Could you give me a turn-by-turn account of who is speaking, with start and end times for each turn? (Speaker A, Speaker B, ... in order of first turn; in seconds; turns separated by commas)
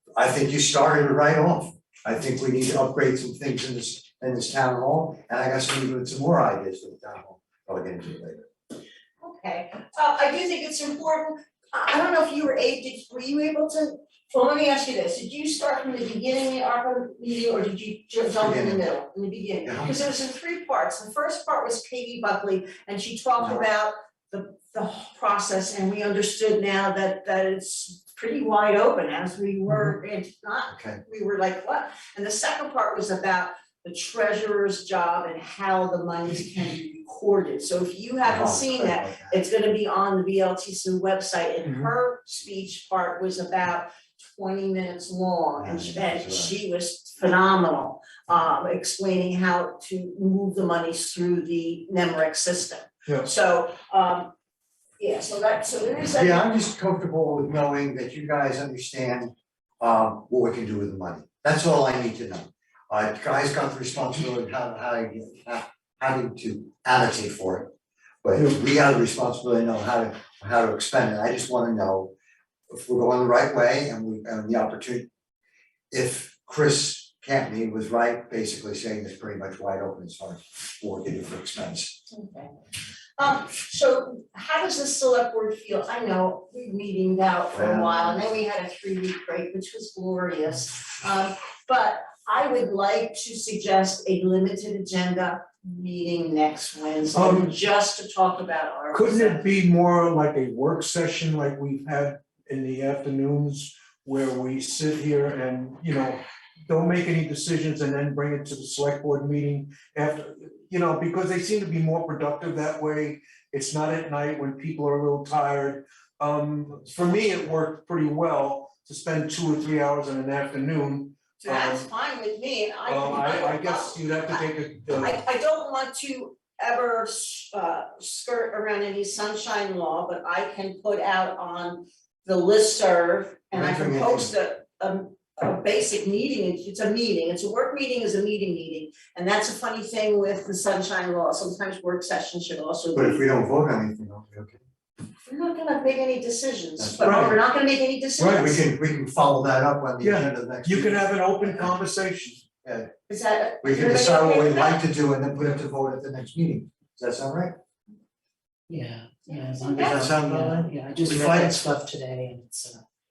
Speaker A: 0.1-8.5, Speaker B: 9.2-54.3, Speaker A: 18.4-18.8, Speaker A: 19.6-20.1, Speaker A: 23.4-23.6, Speaker A: 30.7-31.0, Speaker A: 38.2-39.4, Speaker C: 41.6-41.9, Speaker A: 45.6-46.5, Speaker B: 55.0-56.4, Speaker A: 56.1-67.7, Speaker A: 68.2-72.1, Speaker A: 72.7-75.0, Speaker A: 75.9-82.0, Speaker B: 82.1-82.5, Speaker B: 83.2-99.5, Speaker A: 87.5-88.4, Speaker C: 97.1-97.5, Speaker C: 98.9-121.9, Speaker B: 121.4-143.2, Speaker C: 122.8-125.2, Speaker A: 133.5-134.3, Speaker A: 142.9-144.6, Speaker B: 145.2-148.6, Speaker A: 146.8-147.3, Speaker C: 147.0-147.4, Speaker C: 148.2-148.4, Speaker A: 148.2-151.8, Speaker C: 150.0-152.4, Speaker A: 152.6-152.9, Speaker B: 153.1-154.8, Speaker A: 153.6-157.5, Speaker D: 158.7-162.8, Speaker B: 159.7-160.0, Speaker A: 159.7-161.6